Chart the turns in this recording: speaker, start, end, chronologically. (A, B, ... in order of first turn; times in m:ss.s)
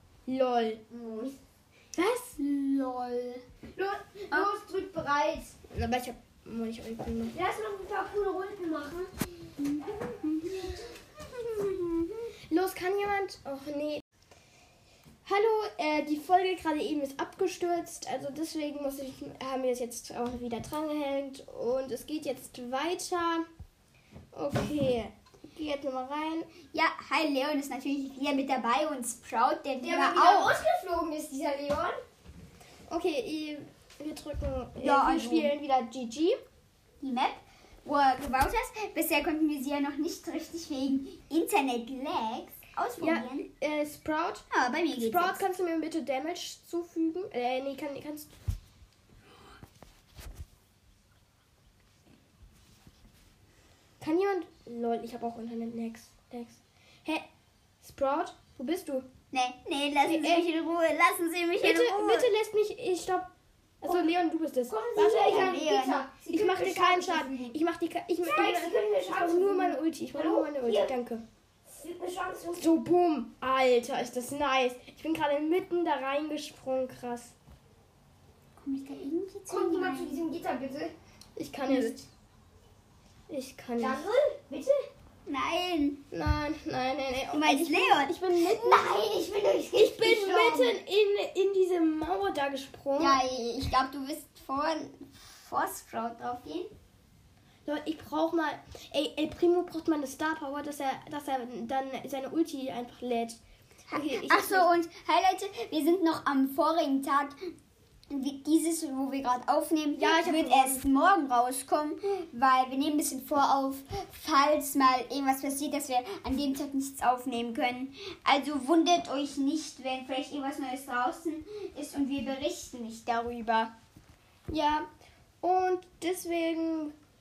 0:00.3-0:00.8 A
0:00.9-0:01.4 B
0:02.0-0:02.4 A
0:02.4-0:03.4 C
0:03.7-0:05.5 B
0:05.7-0:07.4 A
0:07.3-0:09.1 B
0:09.6-0:12.2 C
0:09.8-0:10.7 B
0:12.5-0:14.0 A
0:15.2-0:23.4 A
0:24.3-0:26.5 A
0:26.7-0:30.5 C
0:29.8-0:32.0 B
0:32.9-0:36.4 A
0:34.8-0:35.5 C
0:37.0-0:43.4 C
0:43.0-0:48.3 A
0:44.5-0:45.4 C
0:54.0-0:57.2 A
0:57.8-0:59.0 A
0:59.3-1:02.3 C
1:00.0-1:00.4 A
1:01.6-1:03.3 A
1:03.8-1:05.5 A
1:04.6-1:07.5 B
1:05.2-1:06.1 C
1:06.3-1:11.2 A
1:08.2-1:10.9 B
1:11.7-1:12.7 B
1:12.6-1:17.3 A
1:18.6-1:20.2 C
1:19.5-1:20.9 B
1:21.4-1:22.0 A
1:21.7-1:22.0 C
1:23.3-1:24.0 A
1:23.8-1:24.9 B
1:25.3-1:26.0 C
1:26.1-1:28.9 A
1:27.3-1:28.1 C
1:28.4-1:30.8 B
1:29.7-1:33.2 A
1:33.0-1:36.7 C
1:37.6-1:43.4 A
1:43.9-1:47.5 C
1:43.9-1:44.7 A
1:48.1-2:03.7 C
1:50.0-1:50.8 A
2:04.5-2:04.9 A
2:05.4-2:06.9 A